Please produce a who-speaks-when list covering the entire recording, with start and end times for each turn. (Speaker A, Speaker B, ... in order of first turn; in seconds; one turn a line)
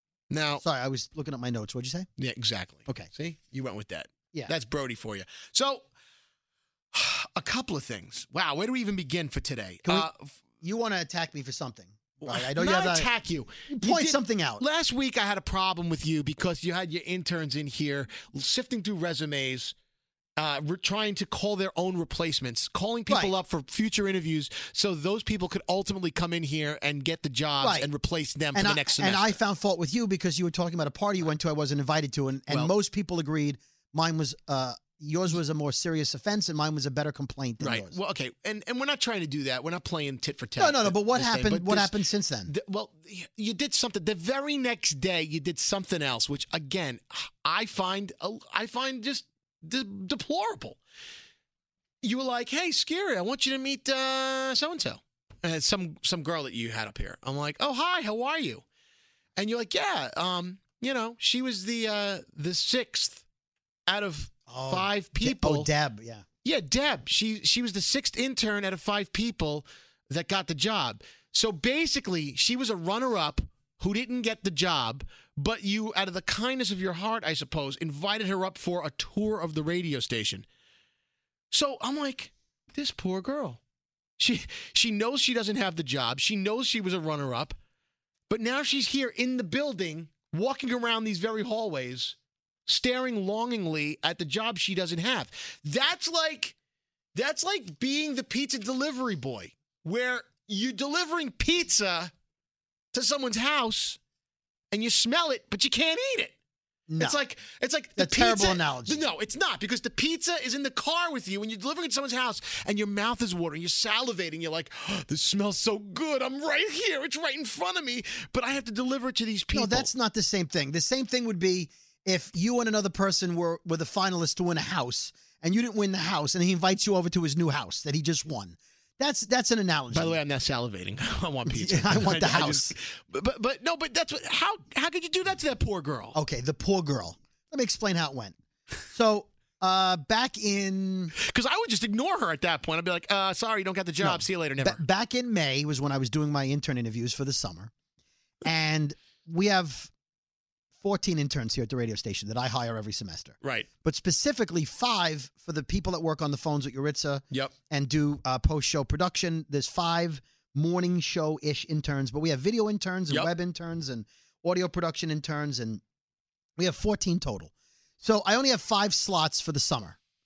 Speaker A: 0.3-0.6
Speaker B: 0.6-2.1
Speaker A: 2.2-5.8
Speaker A: 6.9-10.3
Speaker B: 10.6-13.1
Speaker A: 12.2-19.7
Speaker B: 13.7-14.6
Speaker A: 20.4-29.4
Speaker B: 23.1-23.3
Speaker B: 27.6-27.9
Speaker B: 28.5-38.0
Speaker A: 37.6-41.9
Speaker B: 40.6-42.5
Speaker A: 42.5-50.8
Speaker A: 52.0-58.6
Speaker A: 59.4-63.2
Speaker A: 63.9-65.7
Speaker B: 64.5-66.2
Speaker A: 66.4-80.5
Speaker A: 81.5-83.6
Speaker A: 84.2-87.6
Speaker A: 88.3-92.2
Speaker A: 92.7-96.5
Speaker A: 97.1-102.1
Speaker A: 102.9-104.0
Speaker A: 104.7-106.3
Speaker B: 106.9-107.2
Speaker A: 107.0-119.9
Speaker B: 108.0-109.0
Speaker B: 119.5-130.2
Speaker A: 129.9-136.2
Speaker B: 131.5-132.7
Speaker B: 136.1-138.3
Speaker B: 138.9-141.1
Speaker A: 141.2-144.8
Speaker B: 144.0-147.7
Speaker B: 148.4-149.9
Speaker B: 150.8-165.8
Speaker A: 153.4-153.7
Speaker B: 166.6-170.0